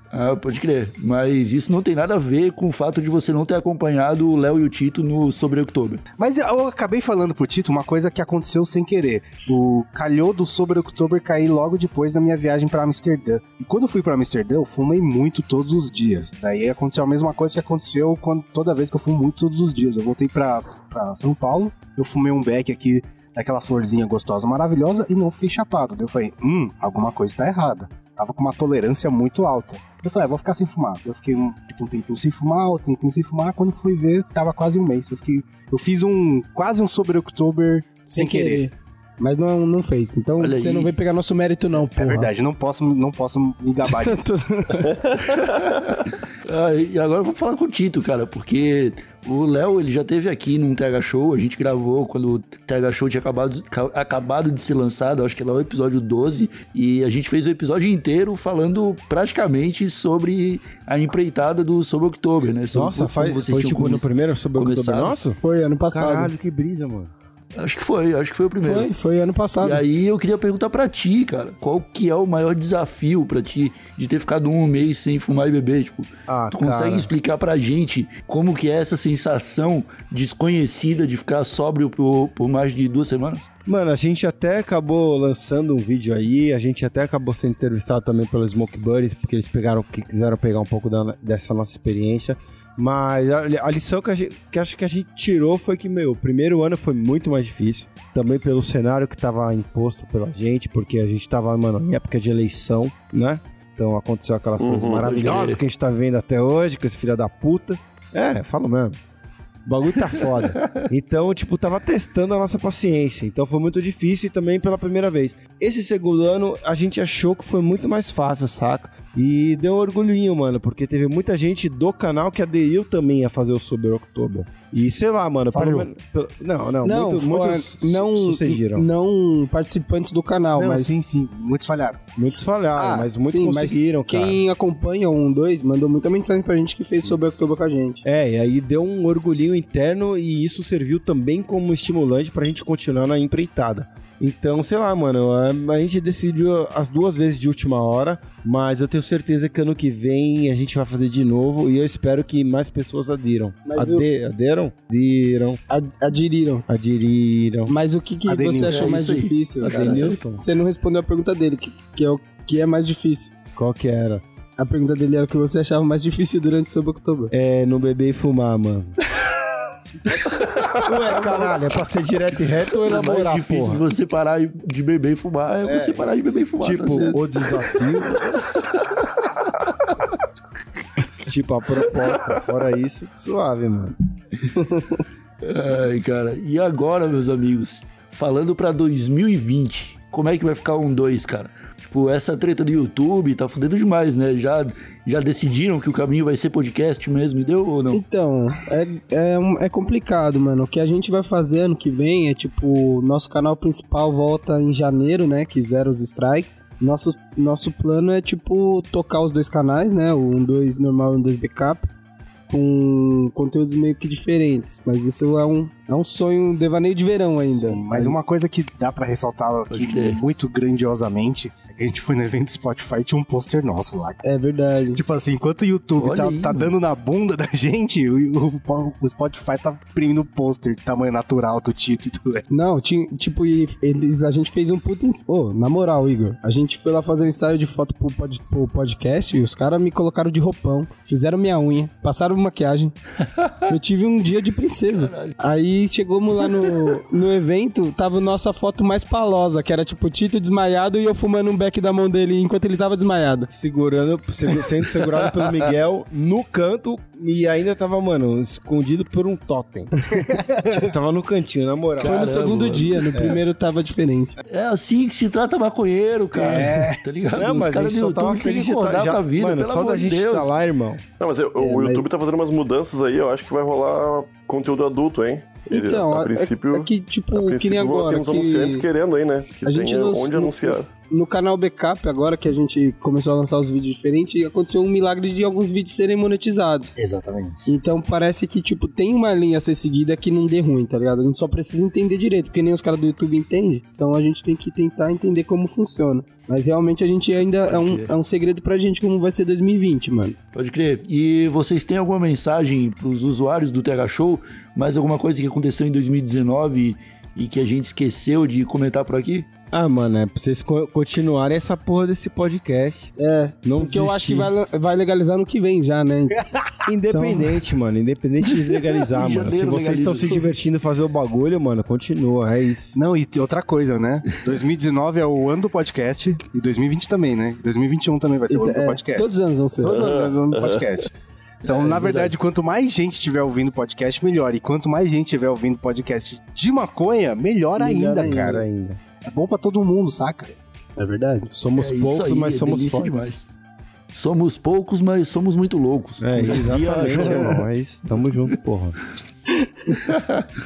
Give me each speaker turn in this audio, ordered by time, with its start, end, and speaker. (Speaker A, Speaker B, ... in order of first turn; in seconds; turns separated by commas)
Speaker A: 0.1-6.0, Speaker B: 6.2-38.6, Speaker C: 38.0-42.3, Speaker A: 40.4-40.9, Speaker B: 41.8-44.3, Speaker C: 43.8-44.9, Speaker D: 44.9-45.5, Speaker A: 45.3-65.2, Speaker E: 62.7-65.4, Speaker C: 65.4-66.3, Speaker E: 65.9-67.1, Speaker A: 67.5-68.9, Speaker C: 68.6-69.8, Speaker A: 69.6-83.5, Speaker E: 76.3-77.1, Speaker E: 83.7-109.0, Speaker D: 104.6-105.5, Speaker A: 105.0-105.6, Speaker E: 109.7-128.9, Speaker A: 110.5-110.8, Speaker C: 125.5-125.9, Speaker C: 126.8-130.9, Speaker B: 130.6-132.0, Speaker E: 132.2-134.4, Speaker C: 132.8-138.0, Speaker E: 138.0-155.6, Speaker C: 153.7-154.1, Speaker C: 155.7-156.7, Speaker E: 156.7-157.7, Speaker C: 157.7-163.3, Speaker B: 158.3-158.9, Speaker A: 158.6-160.2, Speaker E: 159.7-160.4, Speaker E: 163.6-164.2, Speaker C: 164.6-167.3, Speaker E: 167.3-168.9, Speaker E: 170.8-173.8, Speaker A: 172.8-177.2, Speaker E: 175.6-178.2, Speaker A: 178.3-178.7, Speaker E: 181.2-183.9, Speaker C: 184.6-185.0, Speaker A: 185.4-198.0, Speaker C: 197.9-211.9, Speaker C: 212.5-218.2, Speaker B: 217.5-224.2, Speaker A: 219.7-220.2, Speaker C: 224.2-225.0, Speaker B: 224.9-232.4, Speaker A: 226.0-226.7, Speaker C: 232.5-242.9, Speaker A: 243.3-243.7, Speaker C: 243.7-253.5, Speaker A: 244.9-245.4, Speaker A: 246.4-246.7, Speaker E: 253.5-259.9, Speaker A: 255.2-255.5, Speaker B: 260.3-260.9, Speaker E: 260.7-262.2, Speaker A: 262.0-263.1, Speaker C: 262.0-264.3, Speaker E: 263.1-263.4, Speaker A: 264.5-270.5, Speaker B: 266.3-267.0, Speaker E: 267.3-271.0, Speaker D: 271.2-280.9, Speaker C: 271.6-272.1, Speaker C: 275.7-278.8, Speaker C: 279.6-286.9, Speaker B: 286.9-287.7, Speaker C: 287.7-300.4, Speaker A: 297.6-298.1, Speaker A: 300.5-309.5, Speaker E: 309.7-313.1, Speaker C: 313.2-316.4, Speaker E: 313.6-314.5, Speaker B: 316.4-316.7, Speaker E: 316.9-322.9, Speaker C: 317.1-317.6, Speaker A: 318.6-320.4, Speaker B: 322.9-329.3, Speaker C: 328.5-330.3, Speaker B: 329.8-331.1, Speaker D: 329.9-330.8, Speaker A: 331.6-332.3, Speaker B: 331.6-338.6, Speaker C: 337.8-338.6, Speaker E: 338.2-339.0, Speaker B: 339.2-340.6, Speaker C: 341.0-341.5, Speaker E: 341.5-343.4, Speaker A: 341.8-343.5, Speaker A: 344.1-348.5, Speaker E: 346.2-348.9, Speaker A: 349.9-350.5